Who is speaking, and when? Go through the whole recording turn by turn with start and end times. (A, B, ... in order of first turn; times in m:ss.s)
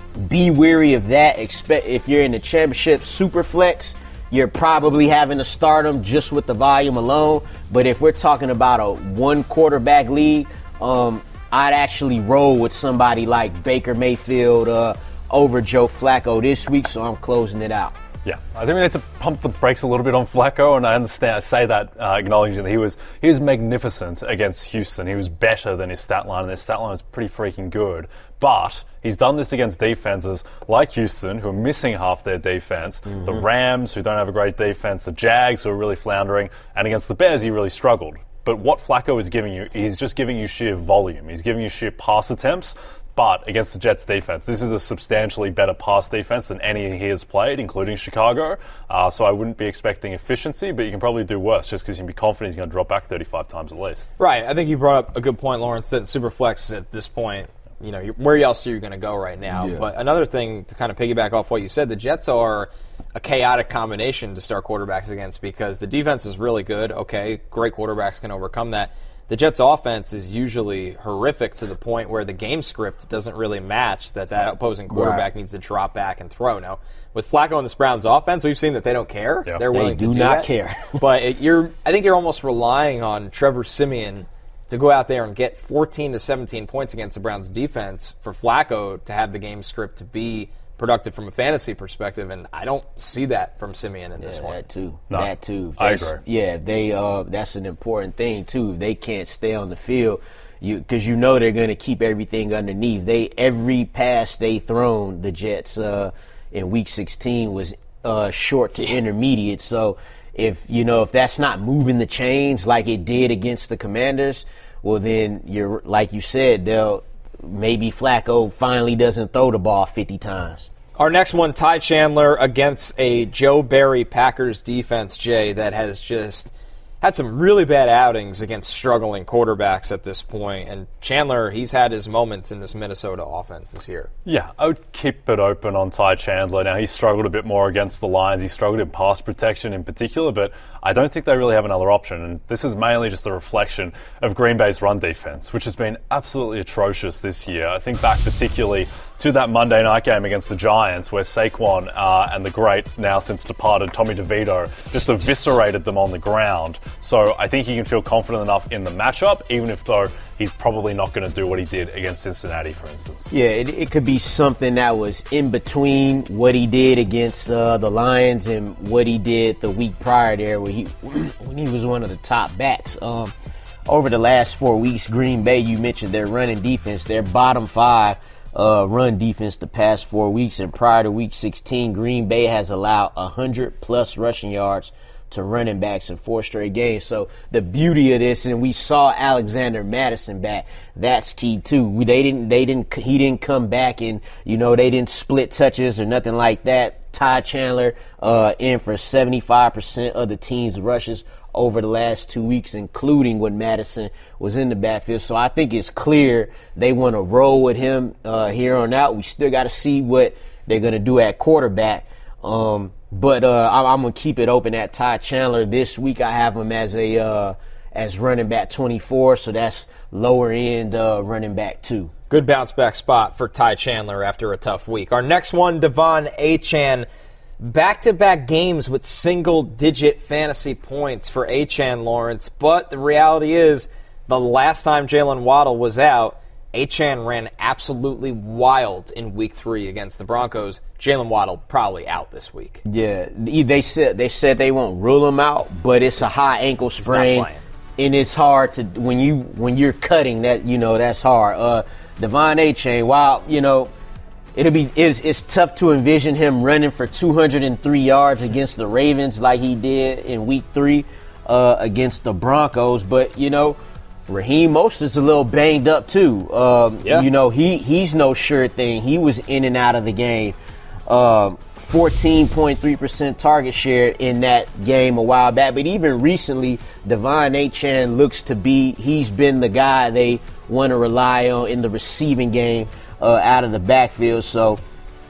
0:00.2-0:18.0 A
0:18.2-0:54.1 B
0:33.1-0:33.4 A
0:54.2-1:34.6 C
0:59.5-0:59.8 A
1:14.9-1:15.2 A
1:19.7-1:21.0 A
1:34.2-2:00.7 A
1:35.1-1:36.2 B
2:01.0-2:14.1 C
2:14.3-2:43.3 B
2:43.3-2:53.3 A
2:53.9-3:42.1 A
3:42.3-3:47.1 C
3:47.6-4:02.8 C
4:02.8-4:13.9 A
4:06.2-4:07.6 C
4:14.6-4:44.8 A